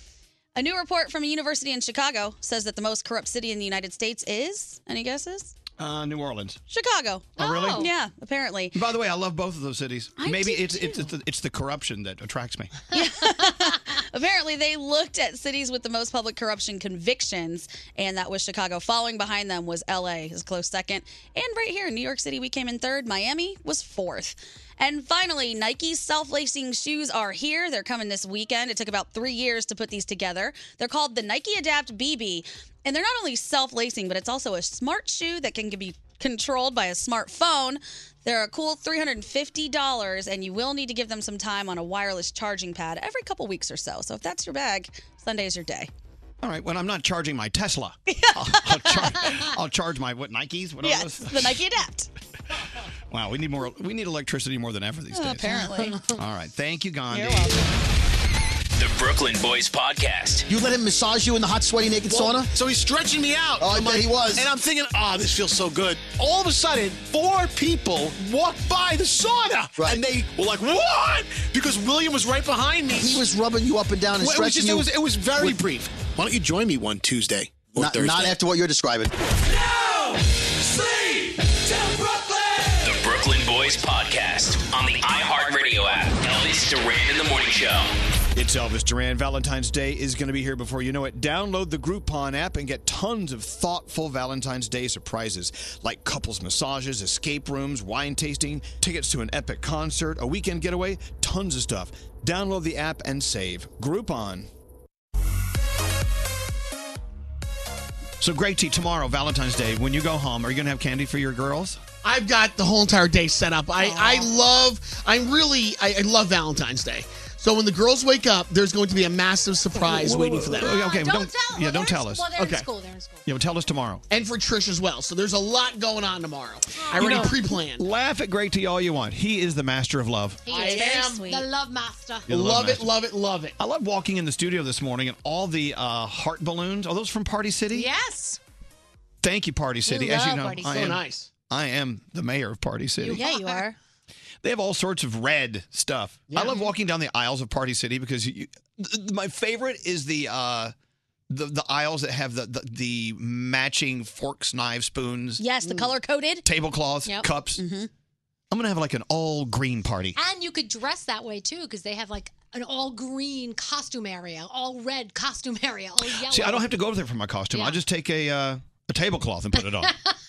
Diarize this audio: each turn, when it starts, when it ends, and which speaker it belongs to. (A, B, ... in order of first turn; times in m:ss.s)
0:00.6-0:05.5 A
0:05.8-0:06.6 B
0:06.7-0:08.8 A
0:07.4-0:07.9 B
0:07.4-0:07.9 C
0:08.7-0:12.7 B
0:10.2-0:11.0 A
0:12.9-0:45.9 A
0:13.0-0:13.5 C
0:46.4-0:51.6 B
0:48.1-0:49.3 A
0:50.8-0:52.1 A
0:53.1-0:55.6 B
0:55.1-0:56.0 A
0:55.6-0:56.0 C
0:56.1-0:57.5 B
0:57.1-0:57.6 A
0:58.8-1:00.5 D
1:00.5-1:02.5 E
1:02.0-1:13.3 F
1:03.6-1:04.5 E
1:09.8-1:10.0 E
1:13.0-1:14.9 E
1:14.2-1:18.4 F
1:17.8-1:19.1 E
1:19.6-1:22.7 F
1:22.8-1:27.9 D
1:28.3-1:44.5 B
1:48.2-1:51.8 B
1:52.0-2:00.7 G
1:59.8-2:02.7 B
2:00.6-2:03.2 C
2:03.2-2:04.0 B
2:04.1-2:07.8 G
2:06.8-2:07.3 C
2:06.9-2:10.4 B
2:10.4-2:12.3 C
2:10.5-2:11.3 G
2:10.5-2:11.4 A
2:12.3-2:13.5 G
2:12.3-2:12.9 B
2:13.6-2:17.9 B
2:17.7-2:18.4 C
2:19.2-2:23.2 B
2:19.9-2:20.8 C
2:20.7-2:21.3 G
2:23.0-2:23.7 C
2:23.1-2:23.7 A
2:24.4-2:30.7 B
2:31.3-2:35.8 B
2:35.4-2:36.4 A
2:36.4-2:37.6 B
2:37.6-2:37.9 A
2:38.5-2:40.2 B
2:40.2-2:46.7 C
2:46.1-2:49.9 B
2:47.5-2:47.8 C
2:49.6-2:49.9 C